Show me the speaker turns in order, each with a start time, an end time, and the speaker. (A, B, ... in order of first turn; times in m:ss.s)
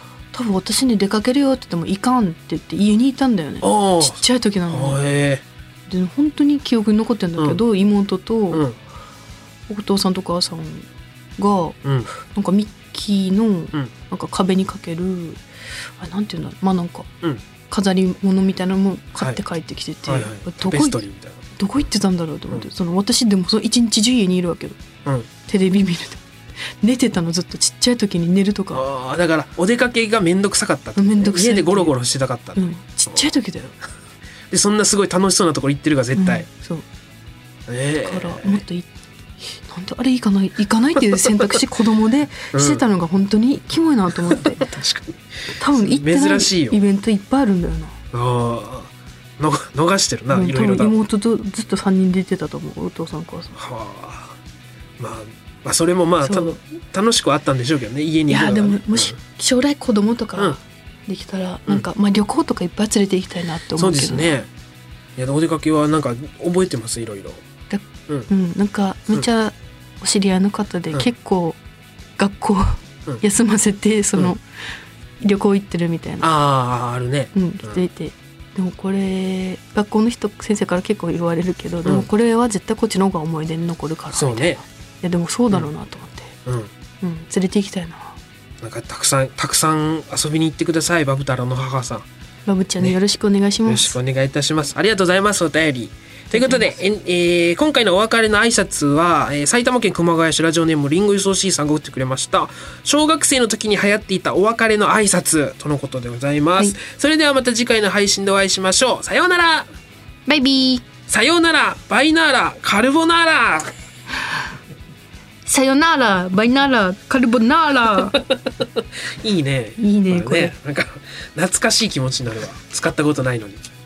0:00.3-0:05.0 A
0:03.6-0:05.4 B
0:05.9-0:08.6 A
0:08.5-0:08.8 B
0:09.7-0:15.4 A
0:11.8-0:12.1 B
0:16.0-0:17.1 A
0:17.7-0:21.0 A
0:20.1-0:21.4 B
0:21.6-0:24.8 A
0:25.5-0:26.2 A
0:26.8-0:28.9 A
0:28.7-0:33.3 B
0:31.0-0:31.9 A
0:32.6-0:33.8 A
0:34.5-0:36.5 B
0:36.2-0:36.8 A
0:37.7-0:38.6 B
0:38.0-0:38.9 A
0:39.4-0:44.8 A
0:42.5-0:42.8 B
0:44.3-0:46.8 B
0:45.6-0:48.0 A
0:48.1-0:51.0 B
0:50.3-0:53.6 A
0:53.6-0:54.4 B
0:55.0-0:59.2 B
0:56.2-0:56.6 A
0:58.3-1:04.4 A
1:03.8-1:04.5 B
1:05.2-1:07.4 B
1:07.7-1:11.6 A
1:12.2-1:14.4 A
1:15.2-1:16.3 A
1:16.2-1:17.8 B
1:17.3-1:26.4 A
1:24.1-1:24.6 B
1:26.5-1:26.7 B
1:27.0-1:28.2 A
1:28.6-1:32.1 B
1:32.5-1:34.0 A
1:33.7-1:49.7 B
1:36.3-1:36.7 A
1:50.3-1:50.8 A
1:51.1-1:53.7 B
1:55.5-1:58.2 A
1:58.0-2:03.6 B
1:59.8-2:00.6 A